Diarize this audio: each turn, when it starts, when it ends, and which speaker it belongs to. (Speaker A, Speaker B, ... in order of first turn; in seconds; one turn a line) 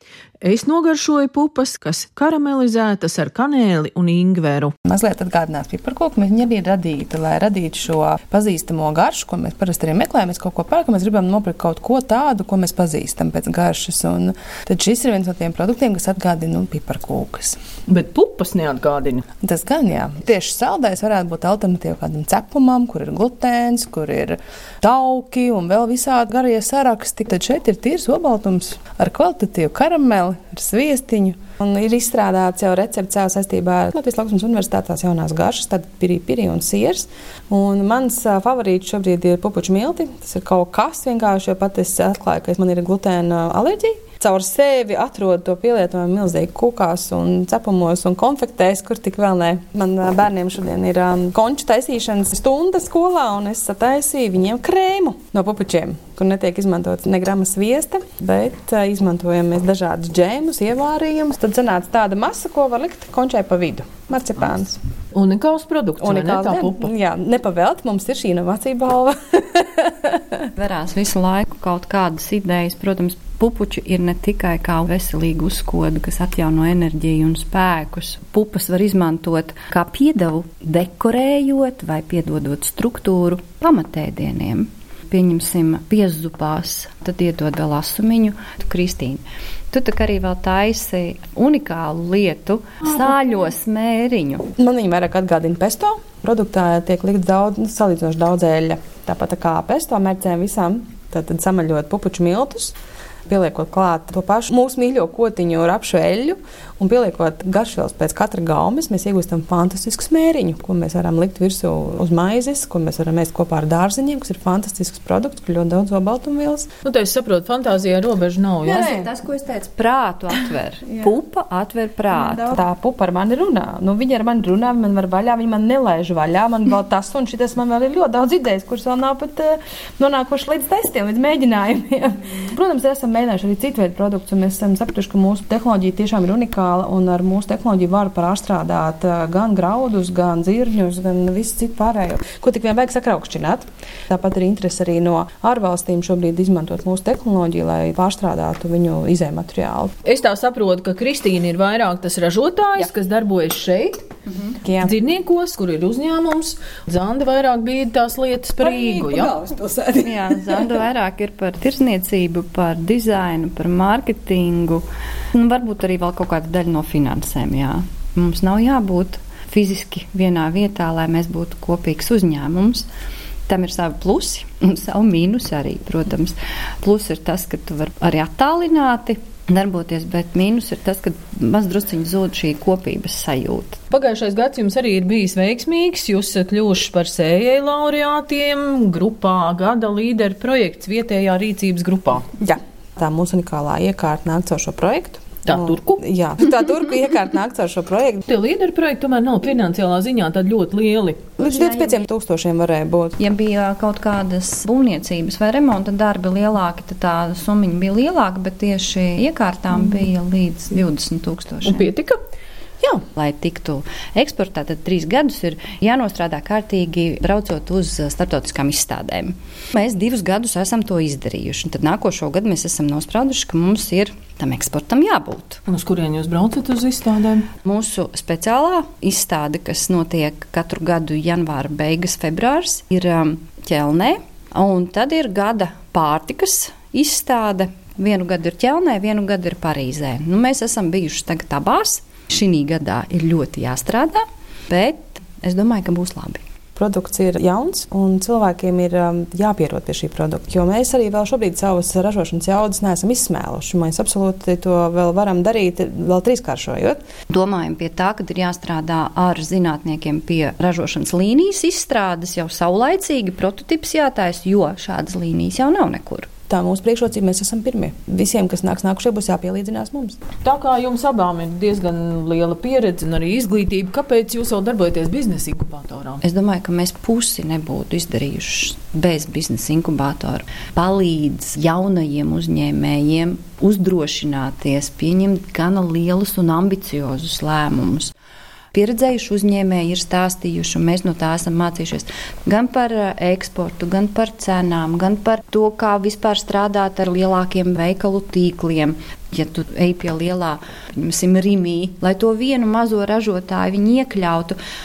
Speaker A: 0.4-4.7
Speaker B: 4.8-17.6
Speaker A: 17.9-19.2
Speaker B: 19.4-64.8
Speaker A: 65.1-66.9
Speaker B: 66.0-70.5
Speaker C: 70.5-94.5
Speaker B: 94.6-102.8
Speaker B: 103.3-116.7
Speaker A: 116.8-119.0
Speaker C: 118.7-122.6
Speaker B: 118.7-119.1
Speaker B: 122.1-149.9
Speaker A: 150.0-154.1
Speaker B: 154.6-154.9
Speaker A: 154.8-159.4
Speaker B: 158.6-160.7
Speaker C: 160.0-172.9
Speaker C: 173.5-183.8
Speaker A: 183.9-192.3
Speaker B: 192.4-198.2
Speaker A: 195.4-196.0
Speaker A: 198.3-201.3
Speaker B: 201.4-203.2
Speaker C: 201.4-202.0
Speaker C: 203.2-211.9
Speaker A: 211.6-212.2
Speaker C: 213.1-225.6
Speaker A: 225.7-227.5
Speaker C: 227.6-246.4
Speaker B: 246.8-257.0
Speaker C: 257.3-266.3
Speaker B: 266.5-270.2
Speaker A: 270.4-276.2
Speaker C: 276.2-288.1
Speaker C: 288.7-304.6